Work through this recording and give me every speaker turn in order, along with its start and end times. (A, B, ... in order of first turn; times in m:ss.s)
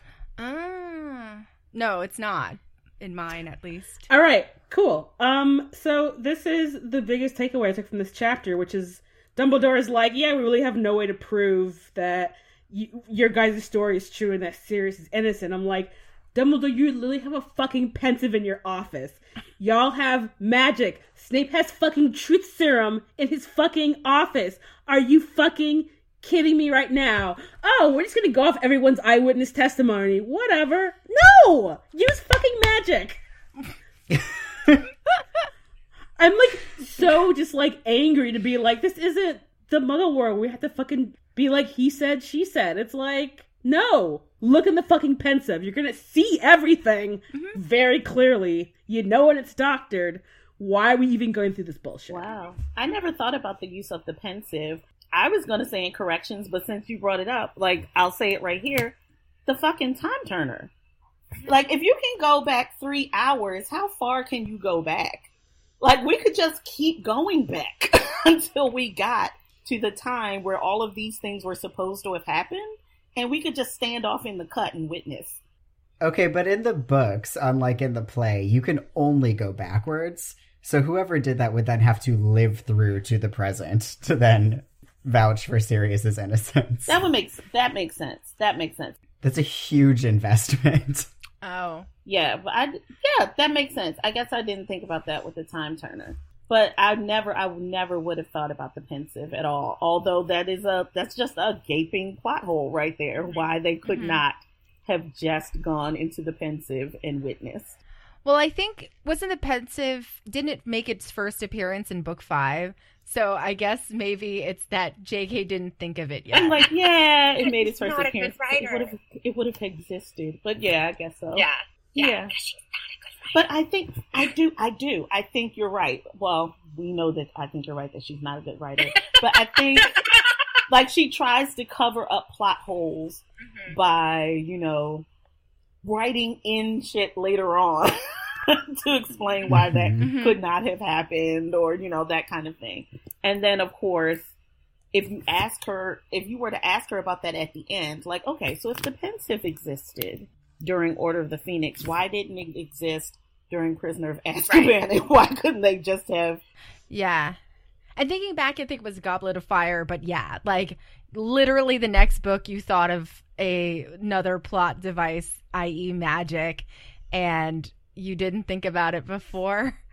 0:00.4-0:04.1 A
0:04.1-0:33.2 B
0:34.1-0:34.8 C
0:36.2-0:52.3 B
0:47.3-0:47.6 A
0:52.1-1:00.7 D
1:01.4-1:05.3 D
1:05.8-1:15.4 D
1:16.0-1:27.0 C
1:26.9-1:29.0 D
1:29.2-1:31.1 C
1:31.4-1:31.9 A
1:32.0-1:47.8 D
1:43.2-1:43.5 E
1:43.8-1:44.2 A
1:48.2-1:56.6 A
1:56.3-2:02.3 D
1:57.4-1:58.9 E
2:01.3-2:02.6 E
2:03.3-2:10.0 D
2:08.9-2:10.0 E
2:10.7-2:15.0 D
2:15.8-2:24.3 D
2:19.5-2:20.1 C
2:20.0-2:20.4 A
2:24.9-2:36.4 D
2:34.4-2:34.8 E
2:36.9-2:37.4 A
2:38.0-2:49.8 A